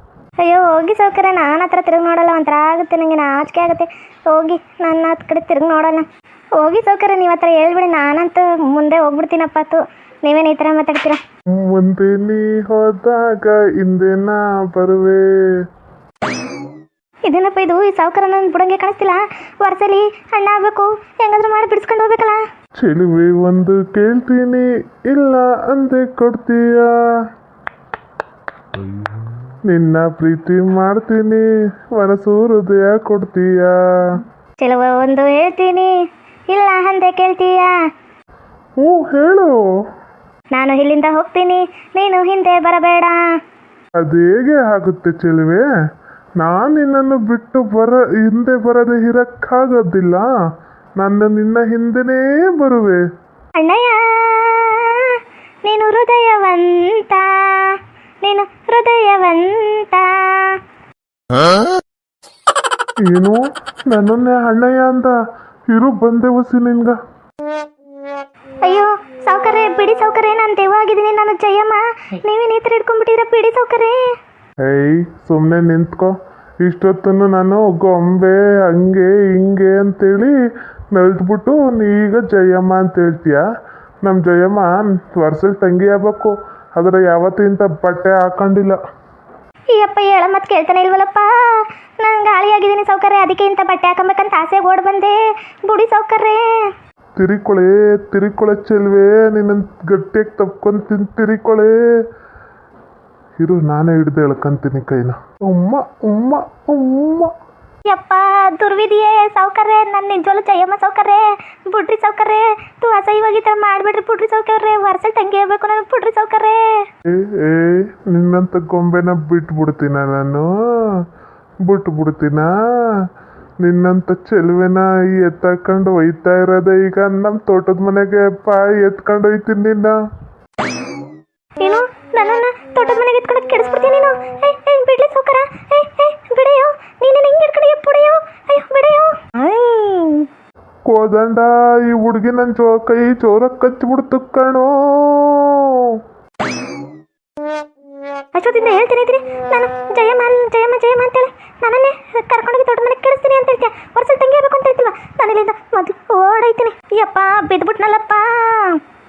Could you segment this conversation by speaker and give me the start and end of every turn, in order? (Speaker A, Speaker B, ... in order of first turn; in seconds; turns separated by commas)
Speaker A: 0.4-11.2, Speaker B: 11.6-15.3, Speaker A: 17.2-22.4, Speaker B: 22.8-26.9, Speaker B: 29.7-34.2, Speaker A: 34.6-35.9, Speaker A: 36.5-37.7, Speaker B: 38.8-39.5, Speaker A: 40.5-43.2, Speaker B: 44.0-45.6, Speaker B: 46.4-50.2, Speaker B: 51.0-53.0, Speaker A: 53.5-60.6, Speaker B: 63.0-65.1, Speaker B: 65.7-67.0, Speaker A: 68.6-74.0, Speaker B: 74.6-80.3, Speaker B: 80.9-83.4, Speaker B: 84.0-88.8, Speaker A: 89.7-96.7, Speaker B: 97.2-101.7, Speaker B: 103.4-107.3, Speaker A: 107.8-116.8, Speaker B: 117.1-121.0, Speaker B: 121.6-123.0, Speaker B: 123.6-130.0, Speaker A: 131.6-140.3, Speaker B: 140.8-146.0, Speaker A: 148.3-158.8